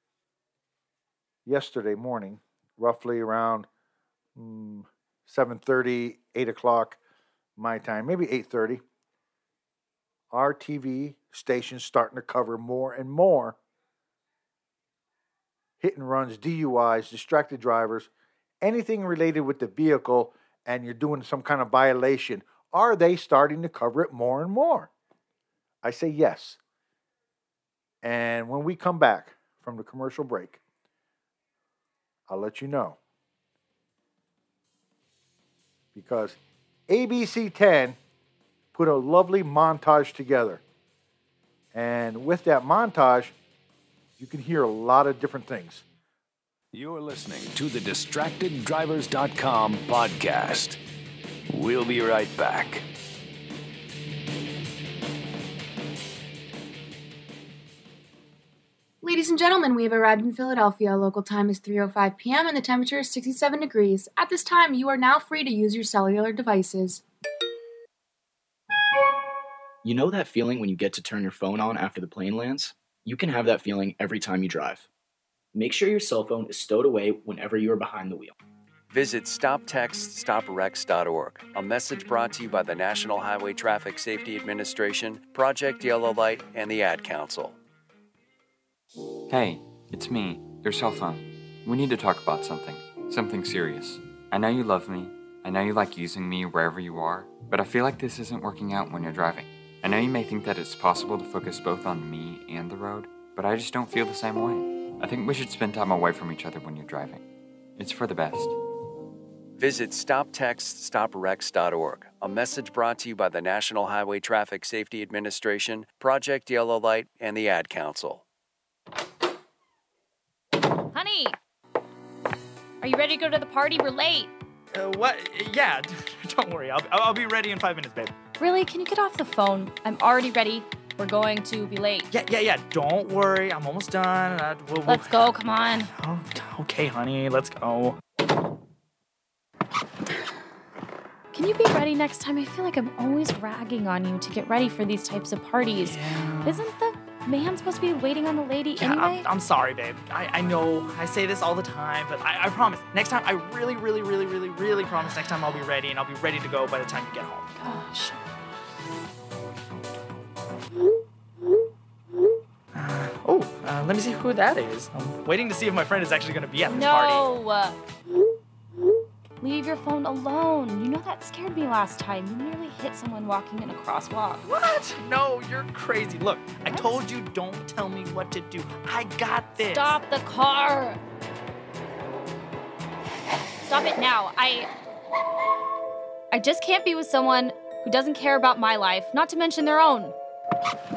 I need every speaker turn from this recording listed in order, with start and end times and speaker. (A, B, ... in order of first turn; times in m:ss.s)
0:01.4-0:03.7 A
0:04.4-0:07.0 A
0:07.6-0:08.8 A
0:10.3-0:13.6 A
0:15.8-0:18.1 A
0:18.6-0:24.9 A
0:25.8-0:26.6 A
0:28.0-0:30.6 A
0:32.3-0:33.0 A
0:36.0-0:36.4 A
0:36.9-0:38.0 A
0:38.7-0:40.6 A
0:41.7-0:43.4 A
0:44.2-0:45.8 A
0:46.7-0:50.8 B
0:51.5-0:52.9 B
0:59.0-1:07.0 C
1:09.8-1:14.9 D
1:15.5-1:18.4 D
1:18.9-1:27.6 E
1:29.3-1:47.2 F
1:47.8-1:48.6 F
1:49.6-1:58.2 E
2:00.9-2:01.4 G
2:02.8-2:04.3 G
2:04.7-2:08.2 H
2:08.4-2:12.1 G
2:12.1-2:15.3 H
2:14.9-2:15.9 G
2:15.9-2:18.0 H
2:21.3-2:29.3 G
2:25.8-2:26.6 H
2:28.8-2:37.5 H
2:37.6-2:38.2 G
2:42.7-2:47.3 H
2:46.7-2:47.8 G
2:49.4-2:54.4 G
2:54.4-3:00.0 H
2:56.7-2:56.9 G
2:59.6-3:01.0 G
3:03.6-3:04.7 G
3:06.3-3:10.2 G